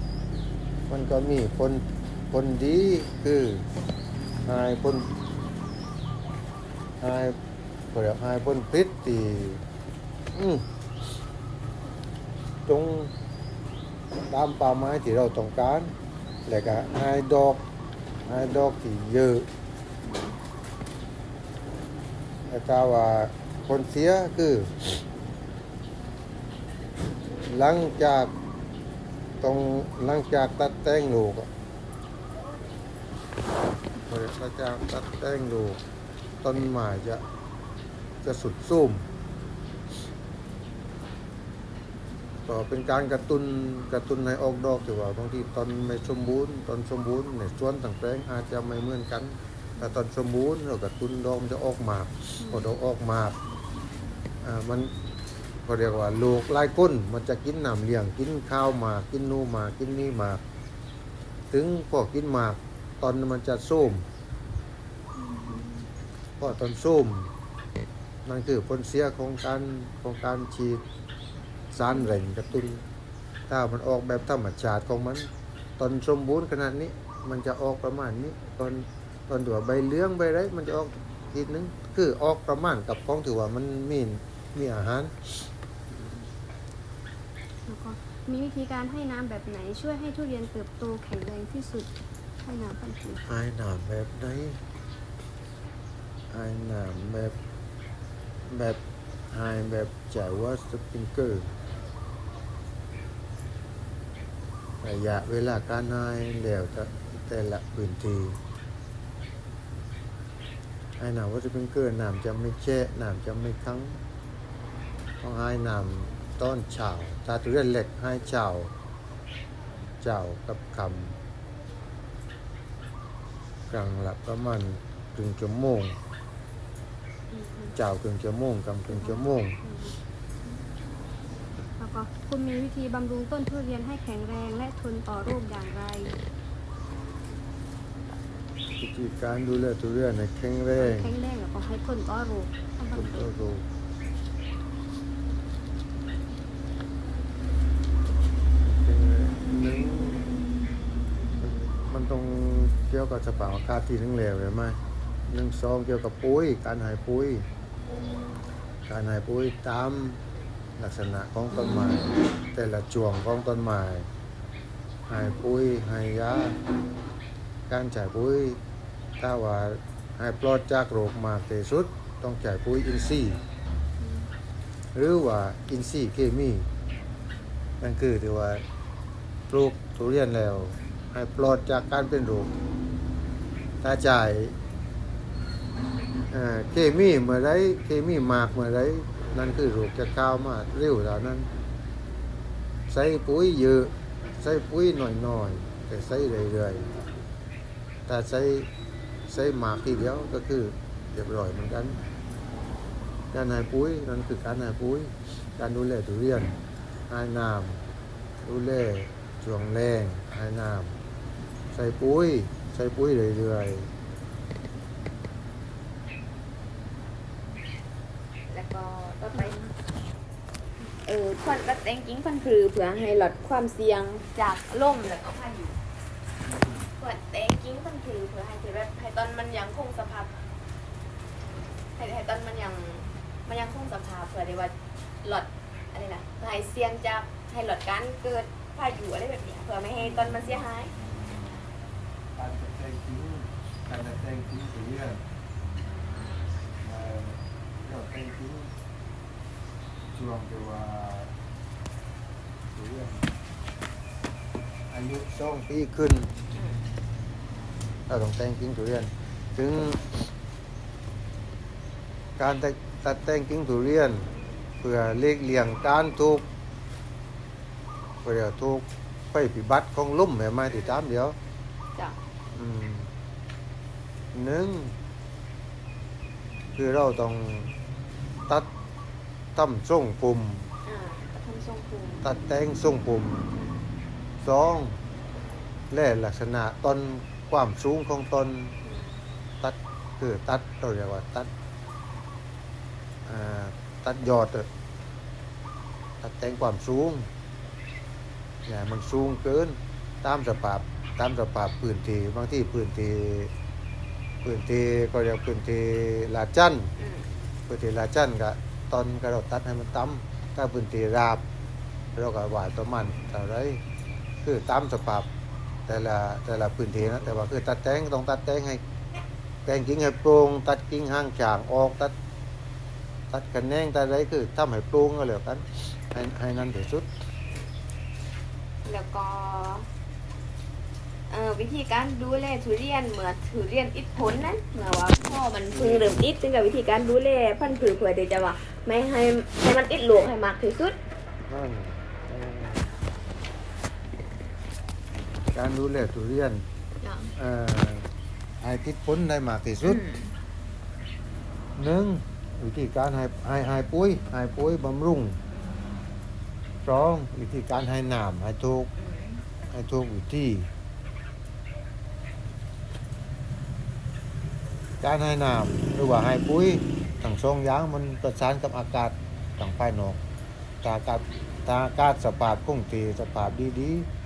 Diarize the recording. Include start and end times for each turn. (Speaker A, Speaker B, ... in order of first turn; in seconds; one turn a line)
Speaker A: 0.9-3.7
Speaker A: 4.4-5.1
Speaker A: 7.0-7.4
Speaker A: 7.9-9.6
Speaker A: 10.3-10.7
Speaker A: 12.7-13.1
Speaker A: 14.1-15.9
Speaker A: 16.5-17.6
Speaker A: 18.3-19.5
Speaker A: 22.5-25.0
Speaker A: 27.5-28.3
Speaker A: 29.4-31.5
Speaker A: 34.1-35.8
Speaker A: 36.4-37.2
Speaker A: 38.2-39.1
Speaker A: 42.5-53.4
Speaker B: 52.4-52.7
Speaker A: 54.4-54.9
Speaker A: 55.6-60.4
Speaker A: 61.5-64.1
Speaker B: 65.2-65.9
Speaker A: 66.4-67.3
Speaker A: 68.2-70.8
Speaker A: 71.7-72.8
Speaker A: 73.5-85.2
Speaker B: 87.7-91.9
Speaker B: 92.4-93.2
Speaker A: 93.3-94.6
Speaker A: 96.3-97.3
Speaker A: 98.5-101.5
Speaker A: 104.8-108.4
Speaker A: 111.0-114.0
Speaker A: 115.2-118.7
Speaker A: 120.0-121.2
Speaker A: 123.7-126.0
Speaker B: 127.3-127.8
Speaker A: 127.8-129.6
Speaker B: 128.9-130.0
Speaker B: 131.8-136.2
Speaker A: 138.8-141.1
Speaker B: 140.8-143.3
Speaker A: 142.9-143.7
Speaker A: 148.6-150.3
Speaker A: 151.4-157.5
Speaker A: 158.9-160.2
Speaker A: 160.8-164.1
Speaker A: 165.1-166.6
Speaker A: 167.7-168.6
Speaker A: 169.2-173.4
Speaker B: 174.0-174.3
Speaker A: 174.9-176.7
Speaker A: 177.8-178.6
Speaker A: 179.5-182.5
Speaker A: 183.8-184.6
Speaker A: 186.3-191.5
Speaker A: 192.9-196.9
Speaker A: 198.1-198.7
Speaker A: 199.3-202.0
Speaker A: 203.3-206.6
Speaker A: 207.1-207.8
Speaker A: 208.4-211.0
Speaker A: 211.7-213.9
Speaker C: 218.5-219.6
Speaker B: 219.3-219.7
Speaker C: 221.0-225.8
Speaker A: 226.4-226.9
Speaker C: 227.0-230.3
Speaker C: 232.0-240.9
Speaker A: 240.0-241.6
Speaker A: 242.3-245.2
Speaker A: 246.8-248.7
Speaker A: 250.1-251.3
Speaker A: 252.7-253.3
Speaker A: 254.9-256.3
Speaker C: 256.5-256.8
Speaker A: 258.1-260.1
Speaker A: 262.4-264.3
Speaker A: 264.8-266.5
Speaker A: 268.2-271.4
Speaker C: 270.7-271.0
Speaker A: 272.5-273.1
Speaker A: 274.3-275.0
Speaker A: 276.8-277.7
Speaker A: 279.6-280.7
Speaker C: 280.9-282.2
Speaker A: 282.2-283.5
Speaker C: 283.5-283.8
Speaker A: 284.4-285.0
Speaker A: 285.9-288.8
Speaker C: 288.8-289.2
Speaker A: 289.6-291.5
Speaker A: 293.2-294.7
Speaker A: 296.2-297.3
Speaker A: 298.7-303.5
Speaker A: 304.4-306.9
Speaker C: 307.0-307.3
Speaker A: 307.7-311.4
Speaker A: 312.1-313.8
Speaker A: 314.4-315.3
Speaker A: 315.9-318.8
Speaker A: 319.6-322.1
Speaker A: 323.3-327.1
Speaker C: 328.9-329.9
Speaker C: 331.3-341.0
Speaker A: 335.7-336.2
Speaker A: 341.5-342.9
Speaker A: 345.5-346.6
Speaker C: 347.0-347.3
Speaker A: 347.4-348.1
Speaker A: 348.6-350.0
Speaker C: 349.8-350.4
Speaker A: 351.8-355.4
Speaker A: 356.9-358.9
Speaker C: 359.0-359.4
Speaker A: 359.7-360.7
Speaker A: 365.0-370.2
Speaker A: 370.8-374.1